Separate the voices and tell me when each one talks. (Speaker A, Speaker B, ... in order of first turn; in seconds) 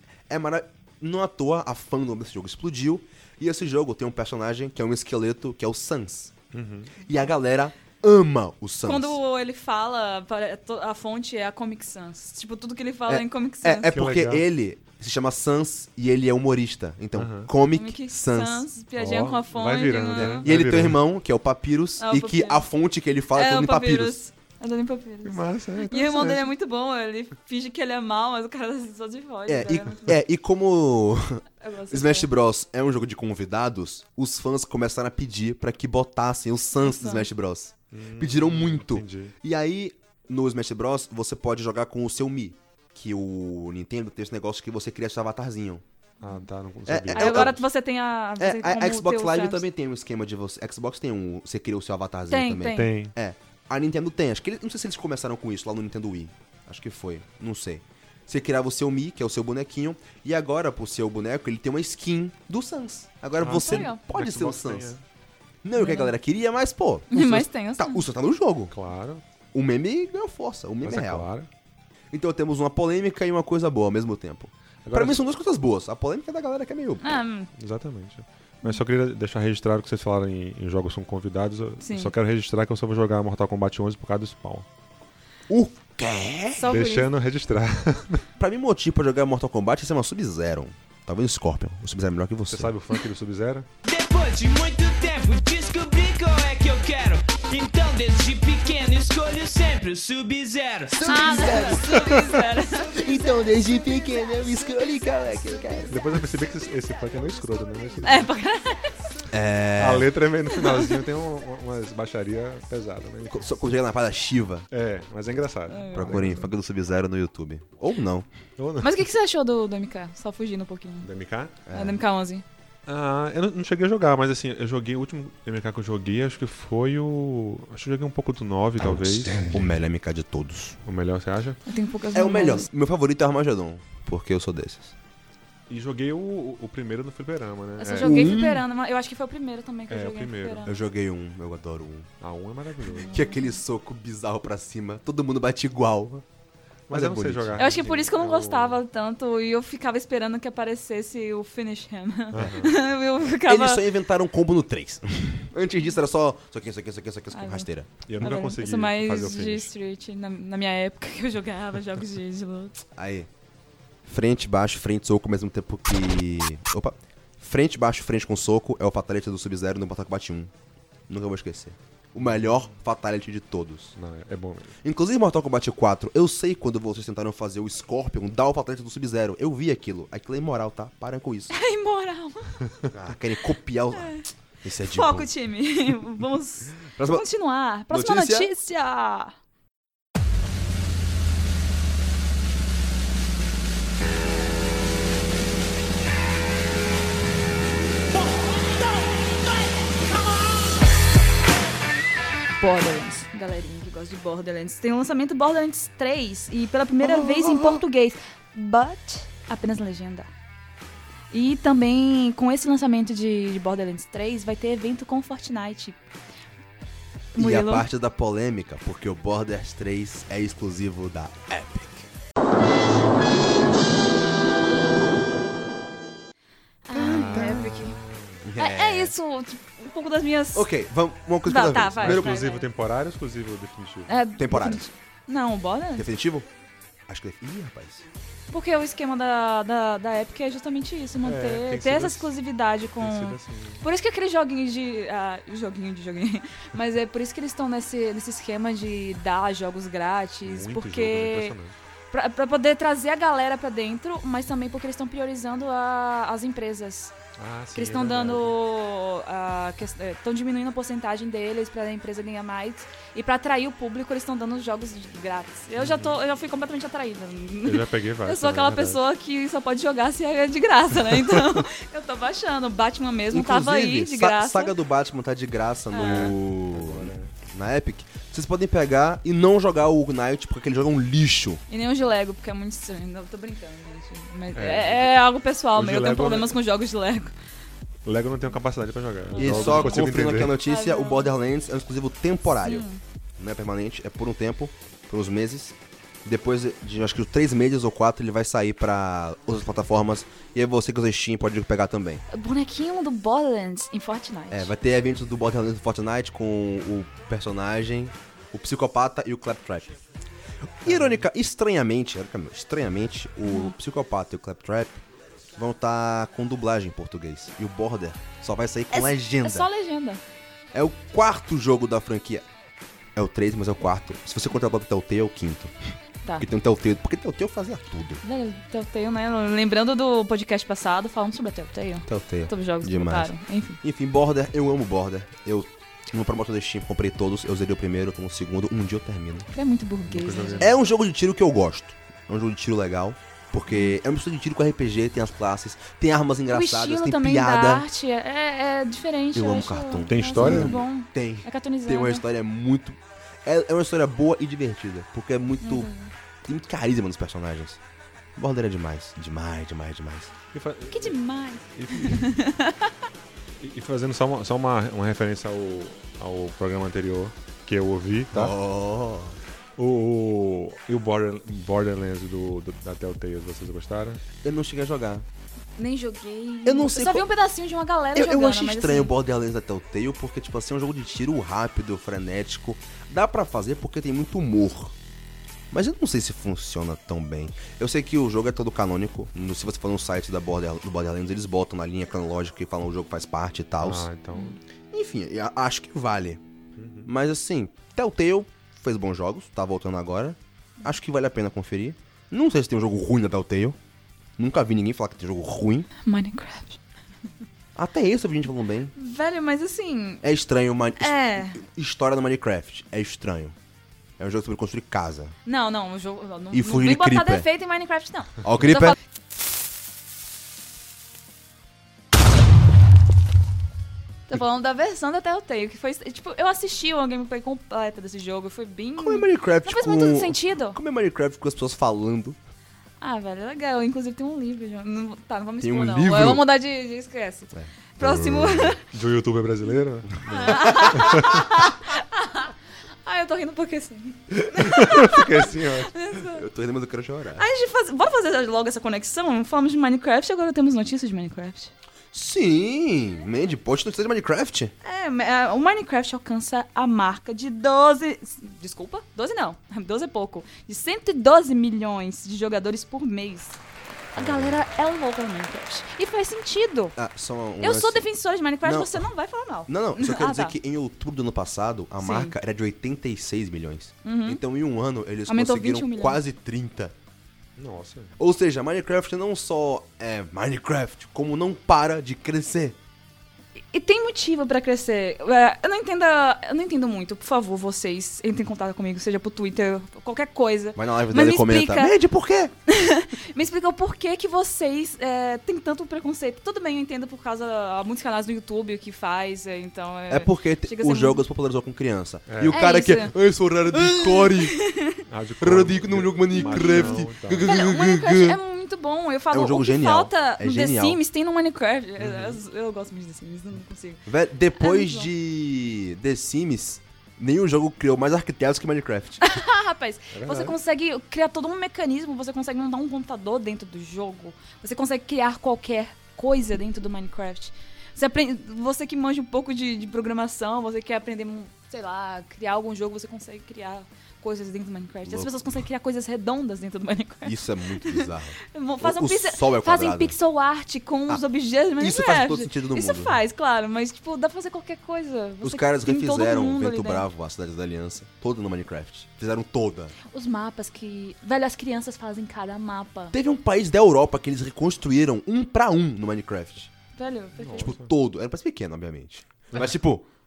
Speaker A: 0.3-6.3, 7.0-9.2, 13.1-18.6, 20.2-24.2, 29.5-45.8, 46.9-47.6, 48.4-64.9, 65.6-68.7, 69.5-71.3, 72.1-77.2, 85.5-86.7, 88.4-92.7, 100.9-102.2, 102.8-106.0, 109.3-110.1, 113.3-114.7, 115.9-118.3, 121.7-122.0, 129.2-130.8, 132.1-134.9, 137.9-138.6, 140.6-142.1, 143.1-146.2, 146.9-147.6, 153.4-157.9, 162.9-163.3, 164.1-170.5, 171.1-173.9, 174.8-181.5, 182.9-185.3, 186.8-187.2, 187.9-188.5, 207.0-207.8, 217.3-222.1, 226.9-227.8, 228.4-229.1, 230.5-232.3, 234.4-234.8, 235.9-236.5, 237.1-238.1, 273.3-281.6, 289.4-292.9, 293.4-302.2, 304.5-310.0, 310.8-315.0, 315.6-319.7, 320.7-322.4, 323.1-325.7, 326.4-328.2, 332.1-339.5, 340.6-347.8, 349.3-355.9, 356.4-357.8, 358.4-360.3, 368.3-369.4, 374.4-375.2, 376.6-377.3, 378.1-384.9, 385.7-394.1, 394.9-396.4, 397.0-403.8, 404.4-405.9, 407.8-408.9, 410.2-413.5, 414.2-415.3, 416.5-417.5, 418.4-418.9, 429.0-432.4, 435.6-436.4, 437.5-438.8, 440.2-441.2, 444.4-444.8, 446.1-447.4, 452.1-454.7, 464.2-464.6, 466.9-468.0, 468.6-469.1, 469.7-476.9, 478.2-482.8, 490.7-492.5, 500.1-504.6, 505.4-508.4, 509.3-511.0, 514.0-519.2, 535.0-535.6, 537.2-540.1, 541.8-543.2, 545.4-549.9, 553.1-556.7, 557.6-560.0
Speaker B: 6.5-6.9, 13.9-14.5, 17.1-17.5, 19.0-21.0, 25.2-26.5, 37.9-39.3, 46.2-47.6, 52.7-53.1, 63.4-65.0, 68.7-69.2, 70.8-71.5, 74.8-75.2, 77.6-84.7, 86.7-88.2, 92.5-93.7, 101.9-102.5, 105.9-108.3, 109.8-113.5, 114.7-116.5, 118.6-119.0, 121.0-121.6, 122.9-129.7, 130.8-131.6, 135.7-138.4, 139.9-140.7, 142.2-143.2, 146.9-148.8, 152.3-152.8, 158.1-159.7, 172.2-172.7, 173.9-174.7, 226.9-228.4, 232.0-234.1, 241.2-242.3, 242.9-243.8, 250.4-251.7, 257.4-258.6, 265.8-266.2, 267.6-269.0, 271.1-271.6, 276.0-277.3, 284.5-285.2, 285.7-286.6, 288.0-290.6, 310.9-311.2, 340.1-340.7, 350.1-350.8, 360.5-361.2, 361.7-362.3, 363.6-368.6, 369.8-374.2, 393.8-394.6, 396.8-397.1, 438.9-441.4, 444.6-445.9, 477.6-478.1, 502.3-502.6, 505.1-507.5, 512.0-512.4, 520.1-520.6, 557.4-557.9
Speaker C: 8.8-13.9, 17.7-20.4, 22.0-22.6, 23.3-30.2, 31.6-32.3, 36.8-37.3, 47.1-49.6, 52.3-53.0, 63.5-64.0, 65.8-66.1, 67.1-68.0, 77.0-77.5, 81.8-82.1, 86.6-87.1, 101.0-103.3, 108.0-109.0, 110.5-111.0, 115.7-116.2, 118.8-121.1, 121.7-122.4, 131.7-132.7, 137.8-140.7, 143.1-143.5, 147.6-153.9, 157.3-157.7, 158.2-162.8, 181.5-182.8, 183.9-184.3, 184.8-189.3, 202.6-210.3, 211.3-216.1, 217.3-217.8, 226.9-228.0, 228.6-230.7, 231.4-232.7, 234.1-236.1, 238.5-251.6, 252.1-257.1, 257.7-274.7, 275.9-276.3, 281.7-287.3, 289.3-291.3, 292.6-293.0, 302.3-304.7, 313.5-313.7, 318.9-320.2, 328.2-333.8, 339.5-340.7, 343.7-343.9, 346.5-352.2, 355.6-356.1, 360.9-362.9, 375.8-379.1, 406.0-406.8, 408.9-410.2, 411.0-411.6, 415.4-418.9, 424.3-430.8, 433.0-438.8, 440.3-442.5, 443.0-446.4, 447.4-451.7, 454.8-463.6, 464.1-466.9, 467.6-470.5, 472.0-472.3, 474.0-474.4, 475.3-476.2, 483.7-491.9, 492.7-501.2, 502.5-503.1, 503.7-505.0, 506.3-514.1, 514.6-515.1, 519.2-547.0, 550.1-553.1, 557.0-557.7
Speaker D: 93.8-101.3